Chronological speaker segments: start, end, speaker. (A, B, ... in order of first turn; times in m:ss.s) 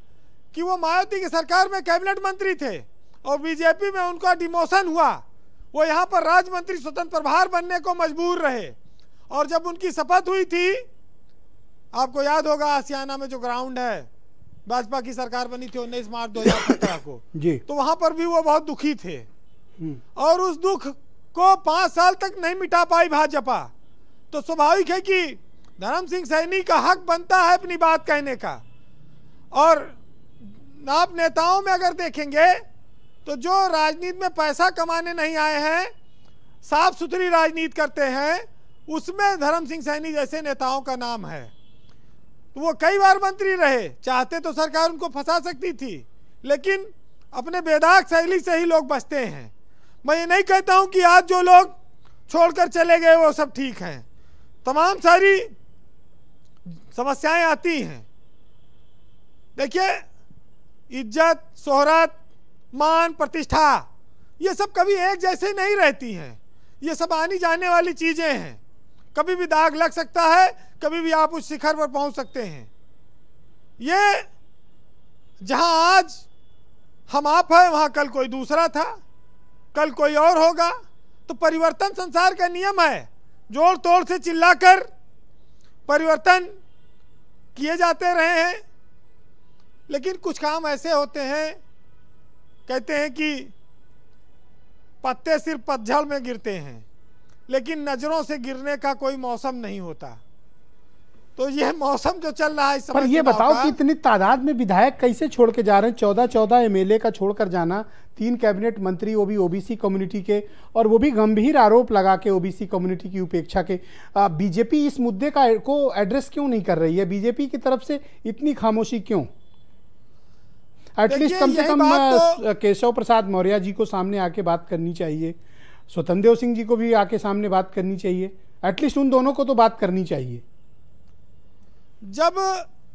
0:00.5-0:08.8 A
0:09.3-0:10.8 A
0:11.9-0:14.1 A
0:14.6-0:19.3 A
0:17.3-0:17.6 B
0:20.2-0:23.7 A
0:24.3-0:28.6 A
0:29.5-0:32.6 A
0:33.2-0:35.9 A
0:36.6-0:41.5 A
0:42.5-0:49.5 A
0:50.0-0:51.7 A
0:52.3-0:54.0 A
0:54.6-0:55.5 A
0:56.9-0:58.0 A
0:59.6-1:00.0 A
1:00.9-1:02.2 A
1:02.7-1:03.9 A
1:04.4-1:08.6 A
1:09.1-1:12.7 A
1:13.8-1:14.3 A
1:15.4-1:16.2 A
1:17.1-1:18.9 A
1:19.7-1:20.7 A
1:21.3-1:24.9 A
1:25.9-1:26.5 A
1:27.5-1:28.6 A
1:29.9-1:31.6 A
1:32.7-1:33.5 A
1:35.0-1:36.8 A
1:37.5-1:40.2 A
1:41.4-1:43.7 A
1:42.9-1:59.3 B
2:01.0-2:05.4 B
2:01.1-2:02.4 A
2:05.9-2:10.4 B
2:12.1-2:12.7 A